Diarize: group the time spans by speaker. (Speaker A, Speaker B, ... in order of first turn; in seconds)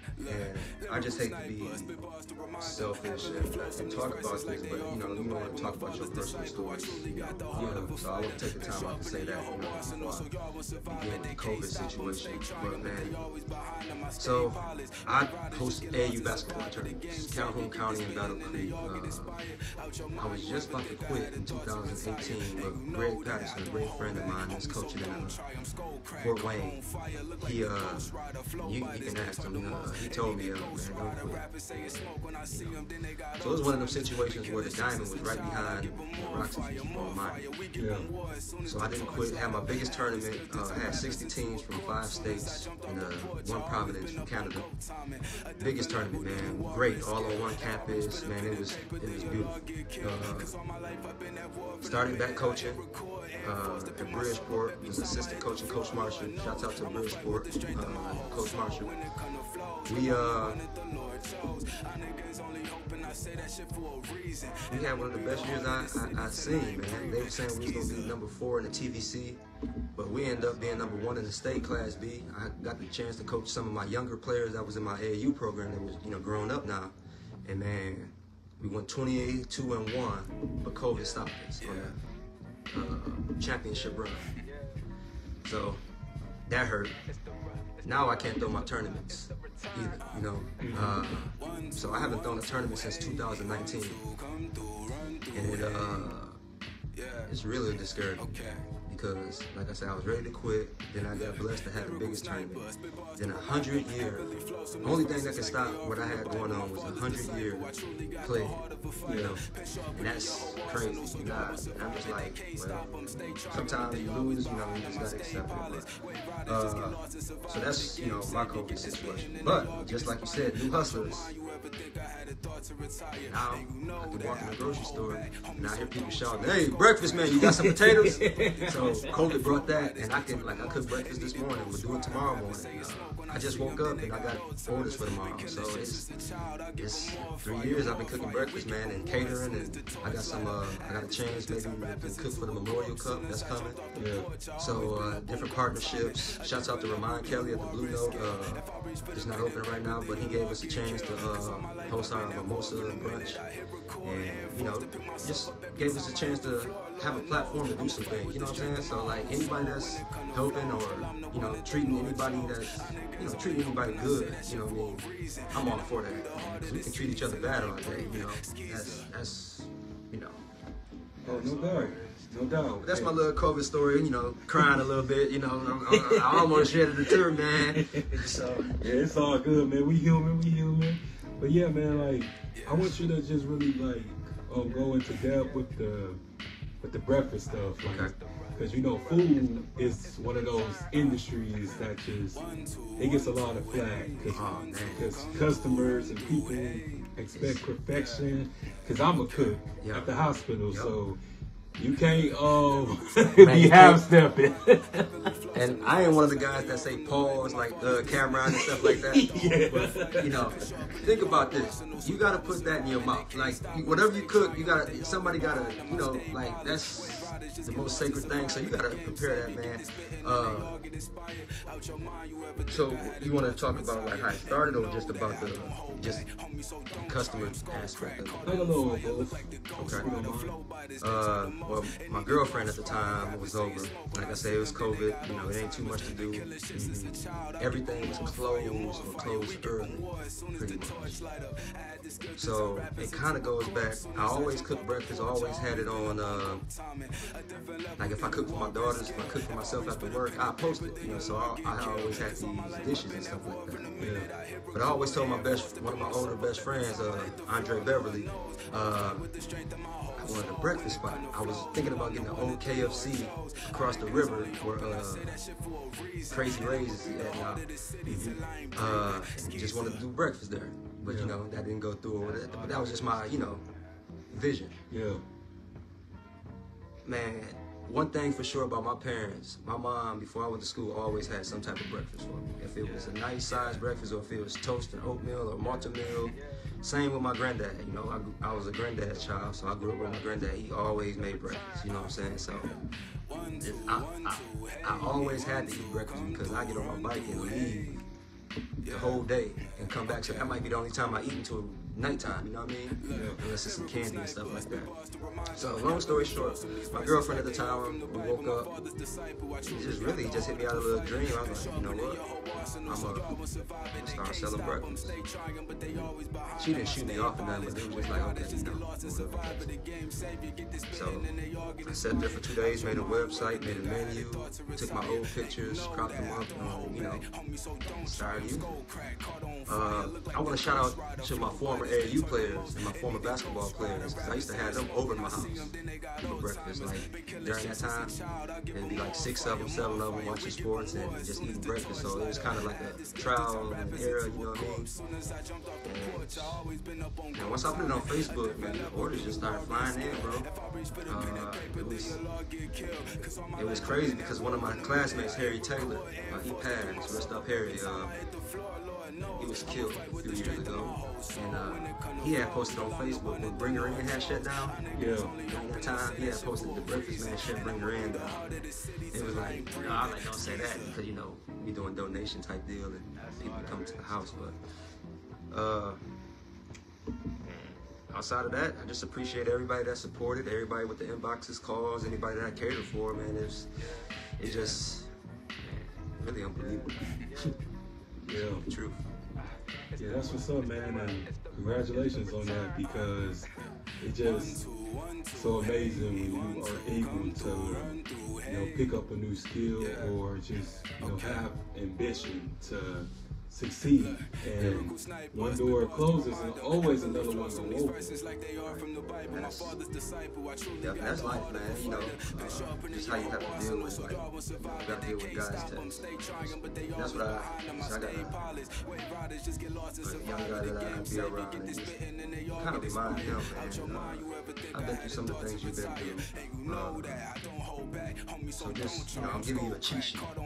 Speaker A: 0.2-1.9, 2.6-10.3, 10.8-13.2, 14.2-19.4, 20.1-25.4, 26.1-26.8, 27.4-32.8, 33.4-37.5, 38.6-44.7, 45.6-50.5, 51.8-52.9, 53.4-59.0, 59.9-60.6, 64.7-69.4, 70.0-76.9, 77.4-81.9, 82.7-84.3, 85.4-85.8, 86.5-86.9, 87.8-94.0, 95.3-96.4, 97.3-104.3, 104.8-109.4, 109.9-115.9, 116.5-121.3, 123.2-136.1, 136.7-143.8, 144.6-153.4, 154.0-170.4, 171.2-171.9, 172.8-178.8, 187.8-188.1, 194.3-195.2, 197.3-197.6, 199.8-200.1, 203.3-204.0, 205.5-220.8, 222.7-226.3, 226.9-228.5, 229.8-230.1, 231.0-236.5, 237.6-241.2, 242.3-246.6, 248.0-253.9, 254.7-259.3, 260.2-265.4, 266.3-273.6, 274.3-274.7, 277.0-292.7, 293.6-298.0, 298.9-304.9, 305.5-308.7, 309.6-312.2, 312.8-313.3, 313.9-315.2, 315.9-319.7, 320.9-321.3, 321.8-327.2, 328.0-328.8, 329.6-338.2, 338.7-344.9, 345.8-346.6, 347.3-350.5, 351.1-352.2, 353.6-358.1, 359.4-364.8, 365.5-374.6, 375.5-376.0, 377.4-383.7, 384.4-385.1, 385.6-387.5, 388.2-389.1, 401.0-401.3, 408.6-409.8, 410.8-418.5, 420.0-422.0, 422.6-427.3, 428.6-430.3
Speaker B: 7.5-7.9, 37.7-38.1, 90.6-91.0, 109.0-109.4, 127.4-129.0, 143.9-144.3, 171.2-173.1, 175.9-177.2, 177.8-178.2, 178.8-186.2, 186.8-192.4, 193.0-194.4, 194.9-201.2, 201.8-205.2, 208.5-210.5, 228.4-230.6, 236.7-237.2, 254.0-254.3, 268.1-268.3, 271.0-271.4, 274.9-275.2, 303.1-303.4, 364.9-365.3, 388.3-388.6, 390.0-393.5, 394.0-394.6, 395.3-397.9, 398.4-408.2